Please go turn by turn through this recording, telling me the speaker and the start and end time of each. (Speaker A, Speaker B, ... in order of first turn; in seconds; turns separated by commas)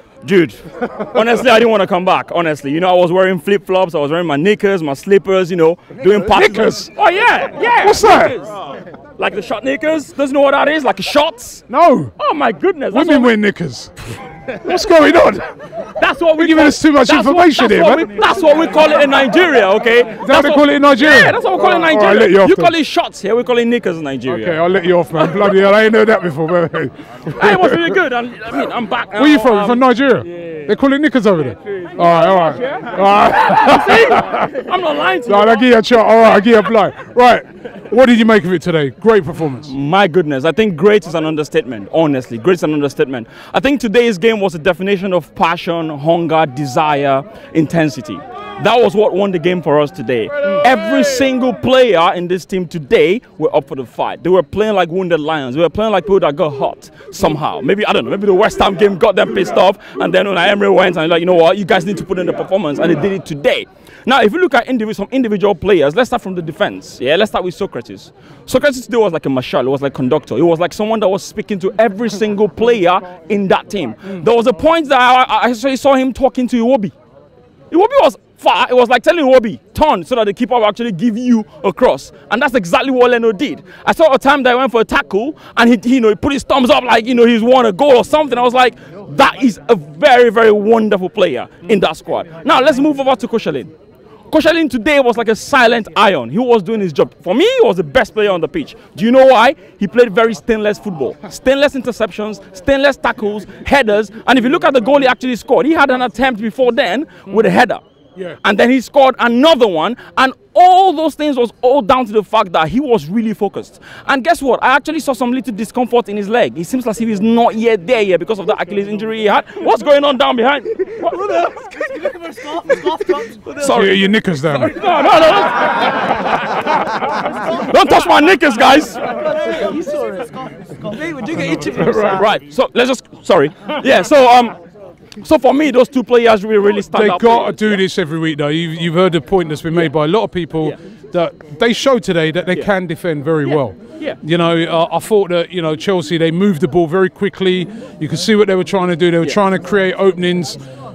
Speaker A: 0.2-8.5, Speaker B: 6.2-6.9, Speaker B: 7.8-8.3, Speaker A: 9.2-11.7, Speaker B: 11.7-12.1, Speaker A: 12.2-13.3, Speaker B: 12.9-15.5, Speaker A: 15.9-24.6, Speaker B: 16.4-18.1, Speaker B: 20.2-22.7, Speaker B: 24.3-28.0, Speaker A: 25.2-25.5, Speaker A: 27.3-29.8, Speaker B: 29.1-34.5, Speaker A: 32.0-35.7, Speaker B: 35.3-39.7, Speaker A: 39.6-76.9, Speaker A: 77.7-93.7, Speaker A: 94.3-107.8, Speaker A: 108.4-129.3, Speaker C: 122.0-123.2, Speaker B: 123.6-124.7, Speaker C: 129.3-132.0, Speaker B: 131.2-132.2, Speaker A: 131.9-134.5, Speaker A: 135.2-137.8, Speaker B: 136.9-150.6, Speaker A: 143.4-144.2